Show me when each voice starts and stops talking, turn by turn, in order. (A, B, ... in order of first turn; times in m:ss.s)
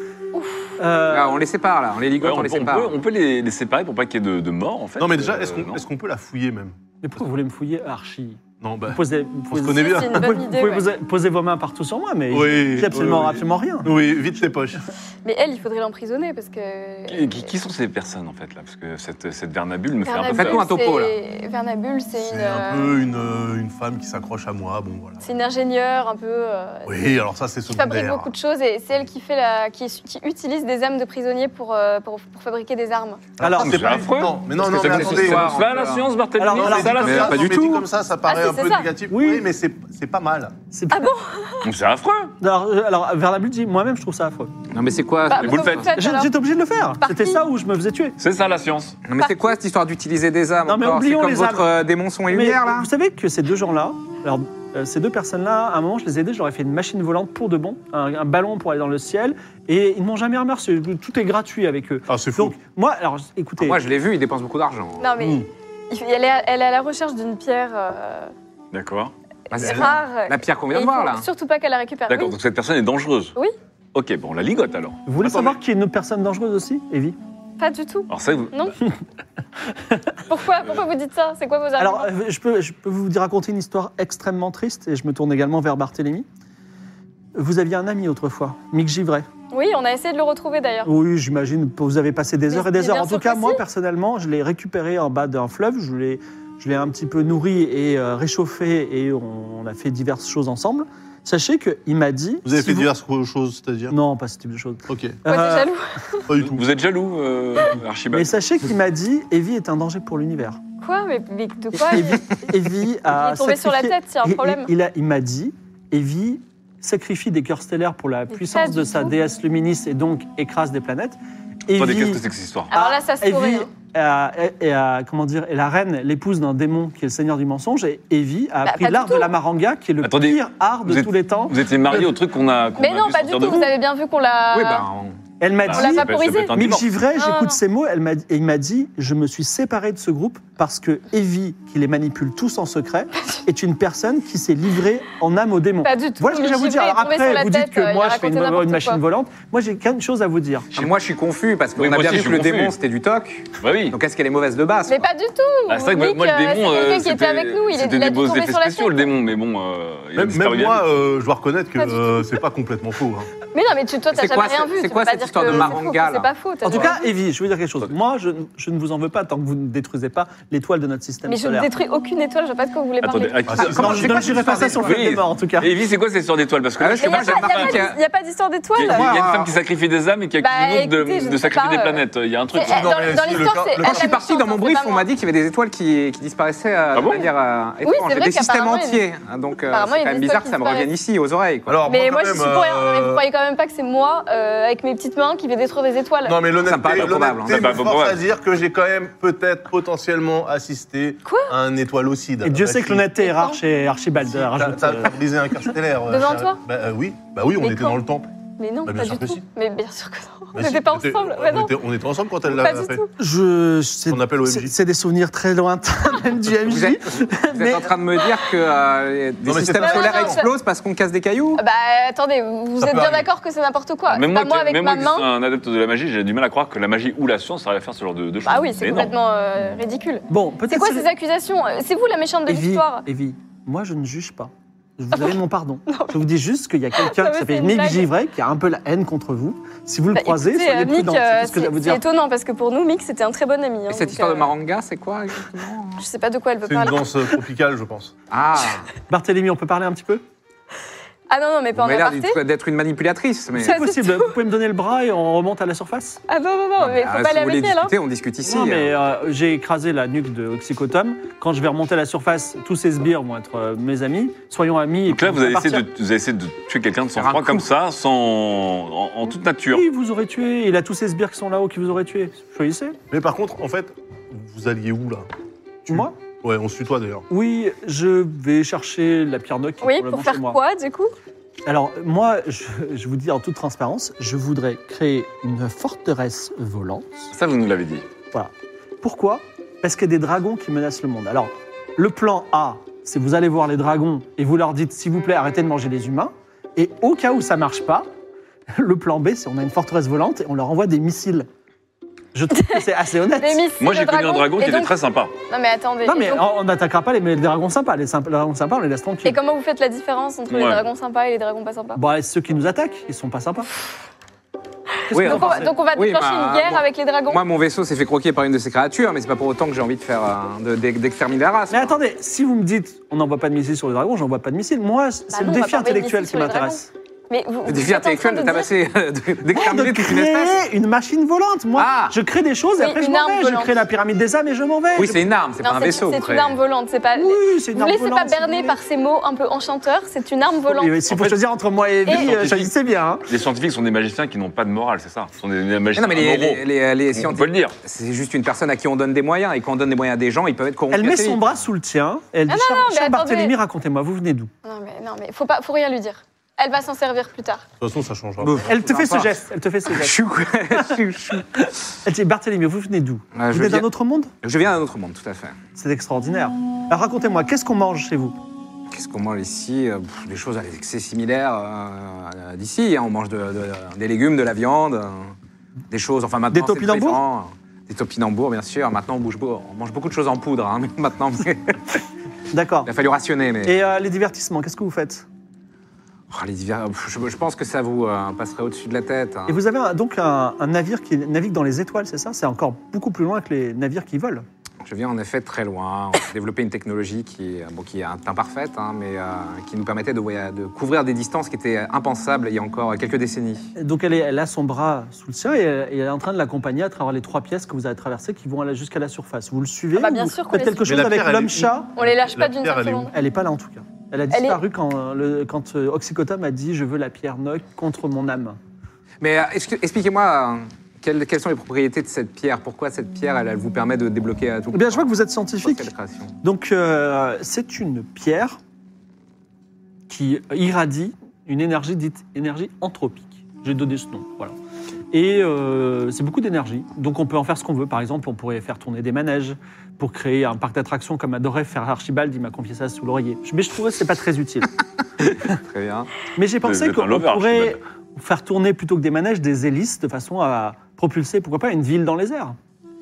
0:00.3-0:00.7 A
0:00.8-0:01.4 B
0:01.1-0:03.0 C
0:02.2-0:05.8 D
0:05.0-0:06.8 E
0:07.0-0:14.0 B
0:08.6-0:10.3 E
0:09.7-0:10.9 A
0:12.3-0:14.8 E
0:15.2-0:17.5 A
0:17.1-0:20.7 D
0:20.0-0:23.0 A
0:20.3-0:21.2 C
0:22.2-0:25.2 E
0:25.2-0:27.1 A
0:26.9-0:28.3 E
0:27.7-0:33.2 A
0:33.4-0:35.6 E
0:33.4-0:34.0 B
0:33.6-0:37.7 D
0:34.6-0:36.1 C
0:36.4-0:37.2 B
0:36.6-0:40.6 E
0:37.0-0:37.8 C
0:38.3-0:38.9 A
0:39.1-0:39.4 B
0:40.7-0:41.1 B
0:40.9-0:41.6 A
0:41.6-0:42.3 D
0:42.4-0:44.5 B
0:44.7-0:45.9 C
0:45.3-0:46.3 A
0:45.4-0:46.0 D
0:46.0-0:48.2 B
0:47.0-0:47.4 A
0:48.2-0:49.0 D
0:49.0-0:52.9 C
0:50.7-0:51.7 B
0:52.3-1:03.8 B
1:02.1-1:02.6 E
1:03.6-1:05.1 C
1:05.0-1:08.3 A
1:08.7-1:09.1 D
1:09.5-1:11.3 C
1:09.5-1:12.4 A
1:09.6-1:09.9 E
1:12.1-1:13.4 D
1:14.0-1:15.6 D
1:15.1-1:17.2 B
1:17.6-1:18.8 A
1:18.1-1:18.8 D
1:19.7-1:20.2 B
1:20.3-1:22.1 A
1:21.8-1:26.3 B
1:27.4-1:29.3 B
1:29.5-1:30.9 A
1:30.8-1:42.9 B
1:32.5-1:33.6 A
1:42.4-1:44.0 E
1:43.9-1:45.7 B
1:44.9-1:45.2 E
1:45.3-1:46.3 A
1:46.3-1:46.6 E
1:46.4-1:48.4 D
1:48.1-1:50.6 B
1:50.8-1:52.6 A
1:51.7-2:11.6 B
1:53.1-1:54.7 A
1:58.3-1:59.1 A
2:01.7-2:02.7 D
2:02.7-2:03.7 A
2:08.6-2:09.3 A
2:10.0-2:13.8 D
2:12.8-2:14.9 A
2:14.5-2:15.2 C
2:15.4-2:30.7 B
2:15.6-2:16.9 D
2:15.7-2:16.6 A
2:17.2-2:17.6 A
2:25.8-2:29.0 A
2:30.7-2:35.1 C
2:31.8-2:32.8 D
2:33.6-2:34.0 D
2:34.9-2:39.1 A
2:35.7-2:40.9 D
2:40.2-2:43.3 E
2:41.8-2:42.3 A
2:43.5-2:47.1 A
2:44.1-2:46.3 C
2:46.6-2:51.7 B
2:51.3-2:54.1 A
2:53.0-2:57.9 D
2:53.5-2:54.9 E
2:53.6-2:55.7 B
2:56.8-2:58.0 C
2:57.0-2:59.2 A
2:58.8-3:03.5 D
2:58.9-2:59.5 C
3:00.4-3:05.1 A
3:02.6-3:04.1 E
3:03.8-3:11.8 C
3:06.9-3:07.3 D
3:07.8-3:09.0 A
3:09.7-3:10.9 A
3:11.7-3:13.2 E
3:11.9-3:16.4 A
3:16.2-3:23.1 E
3:16.6-3:17.8 C
3:17.0-3:18.2 D
3:21.2-3:21.6 A
3:22.4-3:25.2 B
3:23.2-3:23.6 A
3:24.2-3:28.3 E
3:26.1-3:26.6 A
3:27.6-3:28.0 A
3:28.6-3:31.8 A
3:28.8-3:29.4 E
3:30.6-3:33.0 E
3:32.5-3:33.1 A
3:33.2-3:37.9 B
3:34.1-3:34.7 E
3:36.7-3:41.6 C
3:39.4-3:40.4 E
3:39.8-3:40.5 A
3:41.6-3:45.3 A
3:42.8-3:43.3 E
3:44.1-3:49.1 D
3:48.4-3:53.0 A
3:50.3-3:51.1 B
3:52.5-4:02.0 B
3:55.9-3:56.2 A
3:57.0-3:58.1 A
4:00.1-4:04.5 A
4:03.9-4:06.0 C
4:06.0-4:07.1 A
4:06.6-4:08.1 E
4:08.3-4:08.9 C
4:09.1-4:10.2 B
4:11.3-4:12.4 A
4:11.8-4:13.8 C
4:13.6-4:16.2 B
4:13.6-4:14.3 A
4:16.3-4:17.9 A
4:16.8-4:18.9 C
4:18.4-4:25.9 B
4:25.1-4:29.8 D
4:27.2-4:27.7 C
4:29.7-4:33.0 B
4:33.1-4:35.3 E
4:35.9-4:36.2 B
4:35.9-4:37.2 E
4:37.3-4:40.6 B
4:39.8-4:41.2 A
4:41.6-4:47.3 B
4:47.3-4:48.0 D
4:48.3-4:58.1 B
4:58.7-5:01.5 B
5:02.3-5:03.6 B
5:03.4-5:04.9 A
5:03.8-5:05.3 D
5:05.5-5:06.5 A
5:06.0-5:09.4 B
5:09.2-5:12.0 A
5:10.5-5:10.8 D
5:12.0-5:13.7 B
5:15.1-5:15.8 B
5:15.1-5:22.0 C
5:15.1-5:17.4 A
5:21.7-5:26.9 B
5:25.3-5:28.7 A
5:27.6-5:30.6 C
5:29.5-5:35.3 B
5:31.8-5:32.2 C
5:32.8-5:33.7 A
5:35.0-5:36.6 C
5:35.6-5:41.0 A
5:37.2-5:38.8 B
5:40.6-5:43.2 B
5:41.1-5:41.4 D
5:42.1-5:42.3 A
5:42.1-5:42.7 D
5:43.3-5:47.8 D
5:46.0-5:51.4 C
5:50.9-5:54.5 B
5:52.5-5:53.5 A
5:54.6-5:57.7 A
5:57.8-5:58.7 E
5:58.4-6:01.5 C
5:58.7-6:00.2 B
6:00.7-6:04.3 B
6:03.3-6:03.9 C
6:04.4-6:05.6 C
6:05.8-6:08.4 B
6:08.9-6:15.4 C
6:15.9-6:21.8 C
6:16.5-6:17.2 B
6:22.5-6:22.9 B
6:22.8-6:23.8 C
6:23.6-6:25.3 B
6:26.3-6:29.6 C
6:29.5-6:34.4 B
6:34.8-6:43.7 C
6:43.8-6:52.0 B
6:50.0-6:50.9 A
6:50.8-6:53.1 E
6:52.0-6:53.1 A
6:53.1-6:58.6 B
6:54.3-6:54.6 A
6:59.2-7:05.1 C
7:04.7-7:08.6 B
7:05.6-7:06.3 C
7:10.1-7:14.6 B
7:15.1-7:24.7 B
7:25.5-7:26.1 C
7:26.4-7:32.6 B
7:26.6-7:27.8 D